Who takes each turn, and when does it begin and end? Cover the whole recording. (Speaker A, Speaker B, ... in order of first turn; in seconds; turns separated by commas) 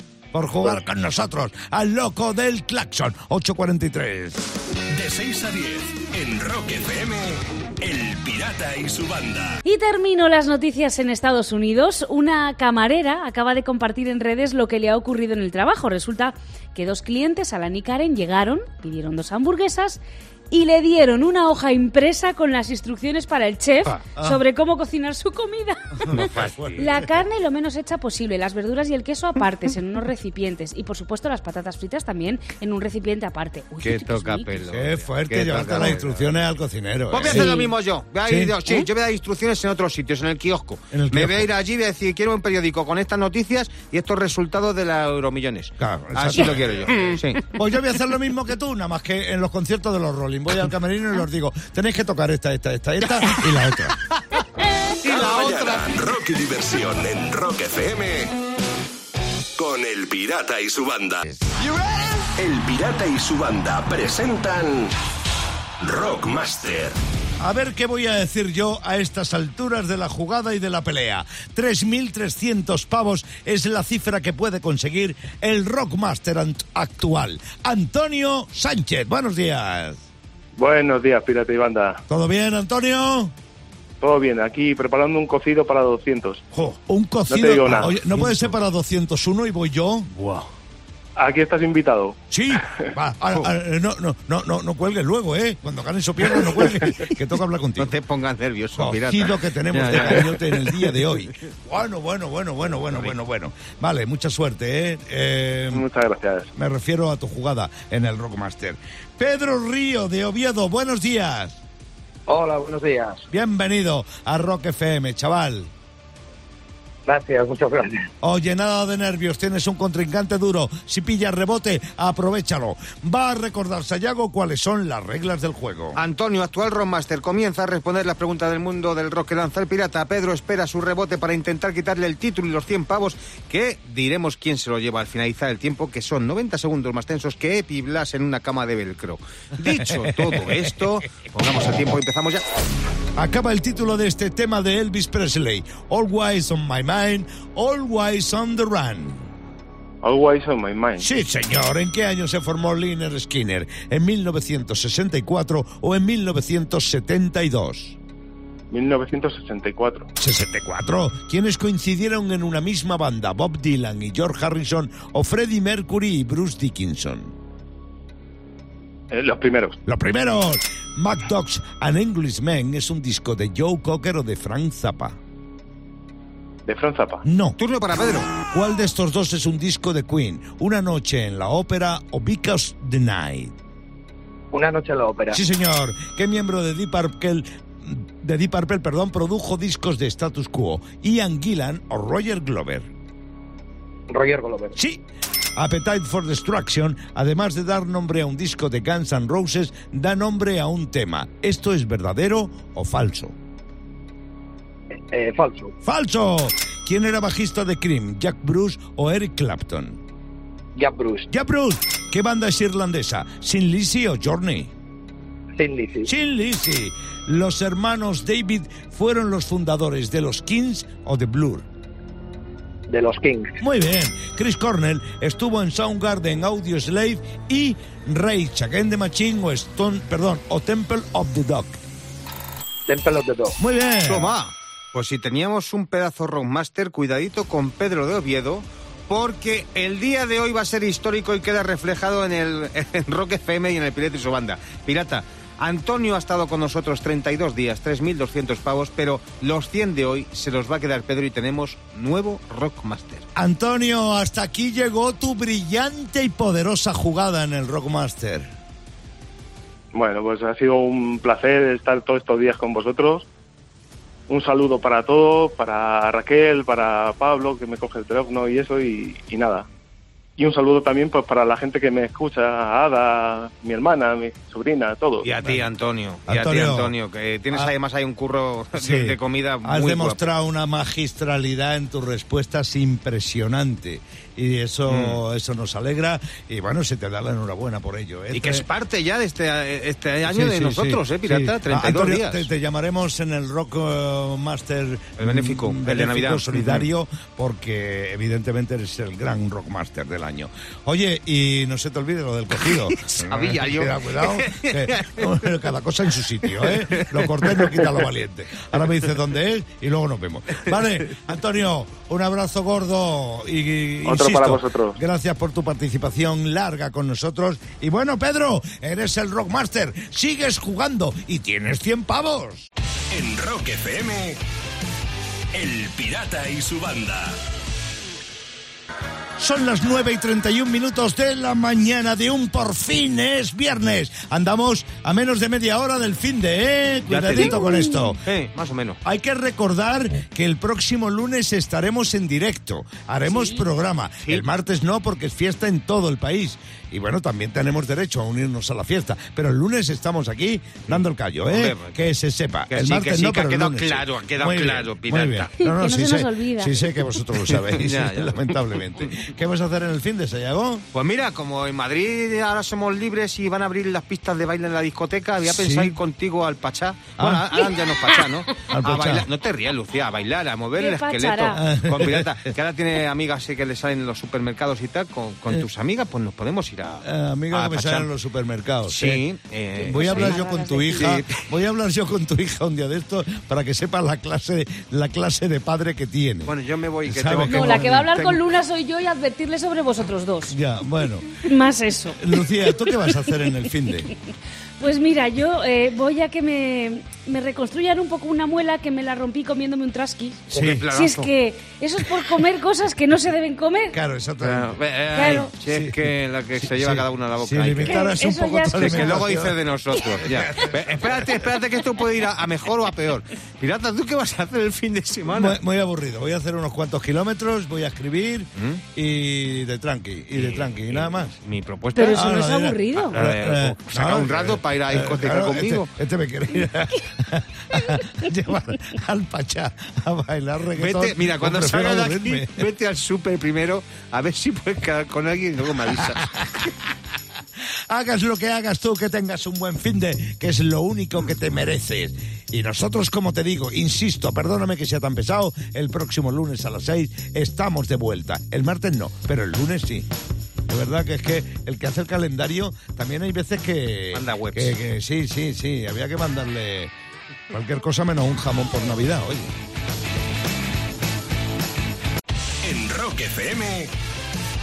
Speaker A: 0.3-4.5, Speaker B: 4.9-9.6, Speaker C: 9.6-20.0, Speaker C: 20.5-26.1, Speaker A: 26.0-27.1, Speaker D: 26.1-26.9, Speaker C: 26.8-34.5, Speaker D: 33.8-36.4, Speaker A: 34.7-37.6, Speaker D: 37.1-47.4, Speaker C: 37.3-37.7, Speaker A: 38.2-38.6, Speaker A: 40.9-41.5, Speaker A: 45.8-54.0, Speaker D: 55.0-55.9, Speaker B: 55.0-58.3, Speaker B: 59.6-61.2, Speaker B: 62.4-64.9, Speaker B: 65.8-67.0, Speaker A: 67.4-80.0, Speaker E: 80.6-82.0, Speaker A: 82.1-83.3, Speaker E: 84.0-86.5, Speaker A: 86.5-90.1, Speaker E: 87.3-87.9, Speaker D: 87.9-88.5, Speaker D: 90.1-90.5, Speaker E: 91.2-92.2, Speaker A: 92.3-97.9, Speaker D: 96.3-97.1, Speaker D: 97.8-101.0, Speaker A: 98.8-105.9, Speaker E: 105.7-106.5, Speaker A: 106.5-111.6, Speaker F: 112.3-113.2, Speaker A: 113.3-115.7, Speaker F: 117.1-118.1, Speaker A: 118.2-126.0, Speaker D: 126.0-142.4, Speaker A: 139.8-140.7, Speaker A: 143.2-149.3, Speaker E: 150.0-151.1, Speaker A: 151.0-158.0, Speaker E: 158.7-160.1, Speaker A: 160.2-167.3, Speaker E: 169.1-169.8, Speaker A: 169.8-175.2, Speaker E: 176.7-177.2, Speaker A: 177.2-177.6, Speaker D: 177.6-178.3, Speaker A: 178.5-183.6, Speaker F: 184.5-185.4, Speaker A: 185.3-192.9, Speaker F: 194.1-194.8, Speaker A: 194.8-195.0, Speaker A: 195.6-203.3, Speaker F: 205.1-205.7, Speaker A: 205.8-210.0, Speaker F: 210.8-211.2, Speaker A: 211.3-214.7, Speaker F: 215.6-216.1, Speaker A: 216.1-221.7, Speaker F: 222.9-223.6, Speaker A: 223.6-231.8, Speaker F: 232.9-233.6, Speaker A: 233.6-234.3, Speaker D: 234.1-253.3, Speaker A: 253.3-258.5, Speaker E: 259.9-263.3, Speaker E: 264.3-269.7, Speaker E: 270.4-275.3, Speaker D: 275.2-280.3, Speaker A: 276.3-276.9, Speaker A: 278.8-288.6, Speaker D: 284.9-285.2, Speaker D: 288.3-292.5, Speaker A: 290.2-322.7, Speaker D: 295.2-296.9, Speaker D: 302.7-305.3, Speaker D: 306.4-308.1, Speaker E: 314.0-315.0, Speaker B: 323.1-324.4, Speaker B: 325.5-327.4, Speaker A: 329.4-338.2, Speaker D: 337.1-337.6, Speaker C: 337.4-338.1, Speaker D: 338.2-339.0, Speaker A: 339.0-360.9, Speaker D: 350.9-352.0, Speaker D: 352.7-355.5, Speaker C: 355.6-357.0, Speaker D: 357.6-359.1, Speaker D: 360.9-378.1, Speaker A: 365.4-365.9, Speaker A: 367.2-367.6, Speaker A: 368.7-369.3, Speaker C: 370.8-371.6, Speaker A: 371.5-372.5, Speaker A: 377.0-379.2, Speaker D: 378.9-381.5, Speaker C: 379.8-381.1, Speaker A: 379.8-386.5, Speaker D: 386.4-388.0, Speaker A: 387.0-388.4, Speaker C: 387.3-390.6, Speaker A: 390.5-391.3, Speaker C: 391.4-393.1, Speaker A: 392.2-394.1, Speaker C: 394.8-404.0, Speaker D: 400.5-401.3, Speaker A: 400.5-400.9, Speaker A: 403.9-404.8, Speaker D: 404.4-408.1, Speaker C: 405.1-405.5, Speaker A: 405.6-409.6, Speaker C: 407.8-409.2, Speaker D: 408.8-415.6, Speaker A: 410.2-411.4, Speaker A: 415.3-421.3, Speaker D: 418.6-418.8, Speaker D: 420.3-422.3, Speaker C: 421.9-423.2, Speaker A: 422.1-432.7, Speaker D: 423.1-425.9, Speaker D: 430.7-436.3, Speaker A: 436.1-436.7, Speaker A: 437.9-450.1, Speaker A: 450.7-456.9, Speaker D: 454.1-454.8, Speaker A: 457.5-459.5, Speaker B: 462.6-463.9